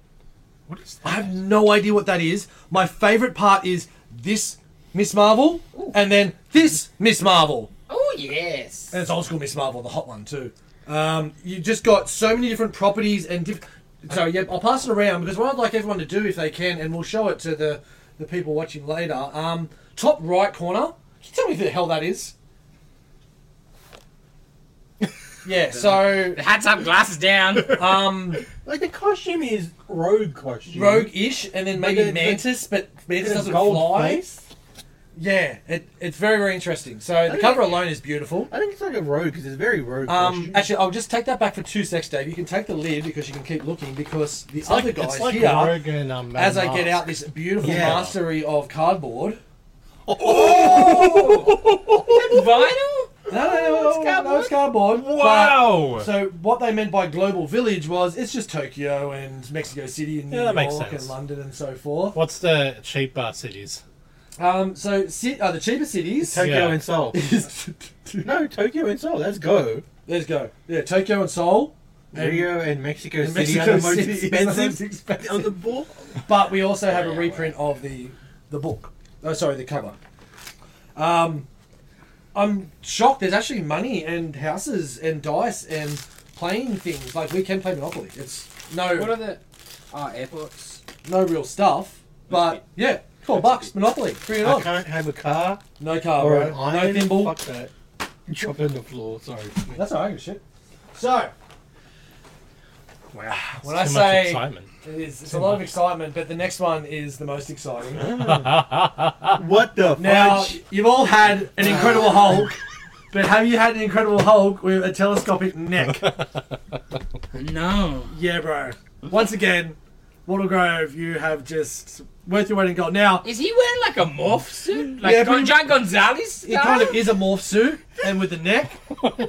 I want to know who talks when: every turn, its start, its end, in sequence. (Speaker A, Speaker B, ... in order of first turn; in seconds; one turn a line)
Speaker A: 0.7-1.3
Speaker B: 1.0-7.7
Speaker C: 7.9-8.9
Speaker B: 8.9-22.3
Speaker B: 25.4-26.4
Speaker C: 26.1-27.8
Speaker B: 27.7-28.5
Speaker D: 28.6-32.6
Speaker B: 30.7-34.2
Speaker D: 33.1-34.4
Speaker B: 35.1-38.5
Speaker D: 37.2-37.9
Speaker D: 38.5-40.7
Speaker B: 40.0-49.4
Speaker E: 44.6-48.1
Speaker D: 47.6-48.1
Speaker D: 50.1-52.4
Speaker C: 50.2-54.6
Speaker B: 50.5-51.4
Speaker B: 53.3-62.2
Speaker A: 54.8-56.1
Speaker E: 60.3-61.1
Speaker E: 62.1-63.8
Speaker B: 64.3-66.6
Speaker D: 66.3-67.2
Speaker E: 66.4-66.8
Speaker B: 67.1-68.3
Speaker D: 68.2-69.8
Speaker B: 70.0-72.5
Speaker D: 72.1-76.0
Speaker B: 73.2-75.6
Speaker B: 76.1-80.0
Speaker C: 76.9-77.5
Speaker B: 80.9-81.5
Speaker B: 82.3-89.3
Speaker C: 88.9-90.8
Speaker B: 91.0-94.7
Speaker D: 94.4-97.7
Speaker B: 95.8-97.4
Speaker D: 98.3-99.8
Speaker B: 99.7-101.3
Speaker A: 103.1-103.5
Speaker B: 103.4-108.6
Speaker E: 103.6-104.7
Speaker E: 105.2-105.7
Speaker E: 108.0-109.4
Speaker D: 109.3-110.6
Speaker B: 109.9-116.1
Speaker C: 117.3-118.1
Speaker B: 118.1-123.3
Speaker C: 123.2-127.0
Speaker B: 125.0-125.8
Speaker B: 126.4-128.9